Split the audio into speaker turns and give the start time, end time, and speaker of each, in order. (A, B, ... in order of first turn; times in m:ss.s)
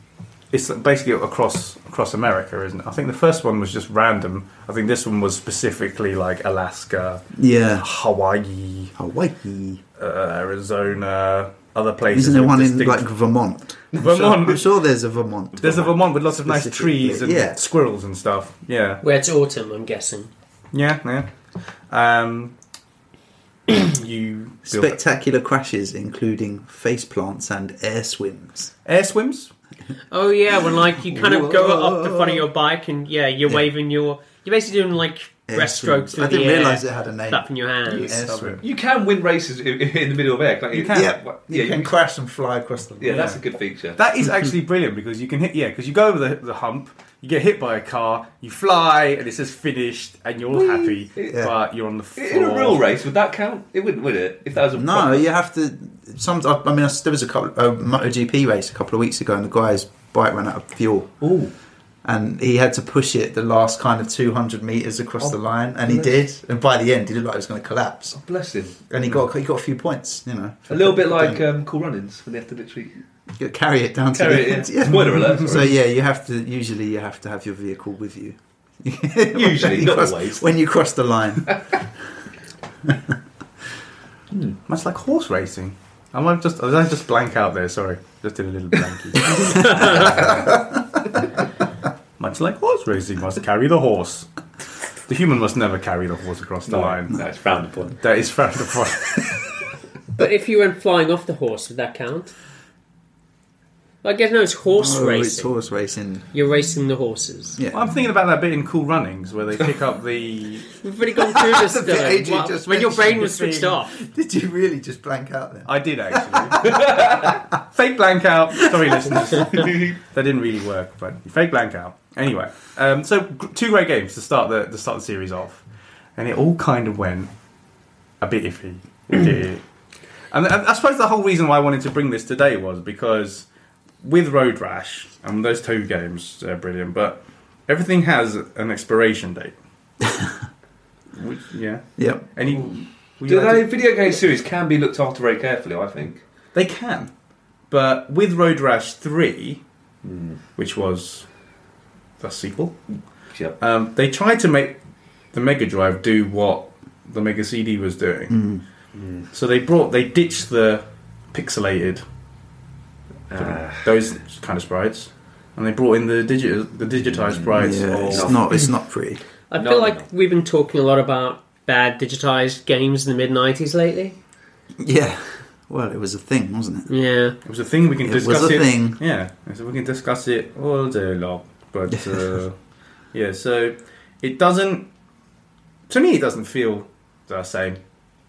0:00.5-0:08.9 A
0:07.3-0:07.9 B
0:09.0-0:09.8 B
0:10.0-0:13.1 A
0:12.1-0:17.6 B
0:13.9-0:14.7 A
0:15.6-0:19.0 A
0:19.0-0:20.3 C
0:20.7-0:21.3 A
0:21.9-0:22.6 A
0:23.7-0:25.0 A
0:24.7-0:28.7 B
0:28.8-0:29.5 A
0:30.1-0:38.1 C
0:31.0-0:32.4 B
0:35.5-0:38.6 B
0:38.1-0:38.6 A
0:38.6-0:41.9 D
0:40.7-0:41.1 A
0:40.8-0:43.3 B
0:43.0-0:44.0 D
0:43.1-0:43.4 A
0:44.0-0:52.8 A
0:50.5-0:51.4 D
0:52.2-0:55.2 D
0:54.7-1:01.1 B
1:01.2-1:01.5 D
1:02.0-1:08.2 B
1:05.2-1:06.2 D
1:08.2-1:08.8 D
1:08.9-1:11.4 B
1:10.7-1:13.0 D
1:13.4-1:21.6 B
1:14.1-1:15.7 D
1:19.3-1:20.5 D
1:22.8-1:23.1 B
1:24.3-1:24.6 D
1:24.7-1:30.6 A
1:29.8-1:30.3 B
1:32.2-1:34.3 A
1:35.1-1:37.2 A
1:36.7-1:38.0 D
1:38.0-1:39.6 A
1:40.2-1:42.3 C
1:44.0-1:45.5 C
1:44.8-1:46.3 B
1:46.3-1:47.6 C
1:47.6-1:47.9 B
1:47.7-1:50.7 A
1:50.8-1:53.9 C
1:51.4-1:57.3 B
1:55.6-2:05.6 A
1:56.6-1:57.3 D
1:59.5-2:00.0 D
2:06.2-2:07.3 A
2:08.2-2:09.6 A
2:10.3-2:13.5 A
2:14.0-2:19.6 A
2:21.1-2:23.7 A
2:22.0-2:22.2 B
2:23.3-2:26.2 D
2:26.5-2:27.1 A
2:27.7-2:29.6 A
2:30.0-2:30.4 D
2:30.6-2:31.3 A
2:32.2-2:32.8 A
2:33.6-2:34.8 A
2:35.3-2:38.4 A
2:38.3-2:38.6 B
2:38.9-2:39.3 D
2:39.3-2:42.0 A
2:43.3-2:43.9 D
2:43.4-2:48.5 A
2:47.3-2:48.6 D
2:47.6-2:49.2 B
2:49.5-2:54.2 C
2:49.6-2:50.0 D
2:54.8-2:56.9 B
2:56.9-2:57.4 C
2:57.4-3:02.6 A
2:58.0-2:59.0 B
3:03.1-3:04.9 A
3:05.9-3:07.8 A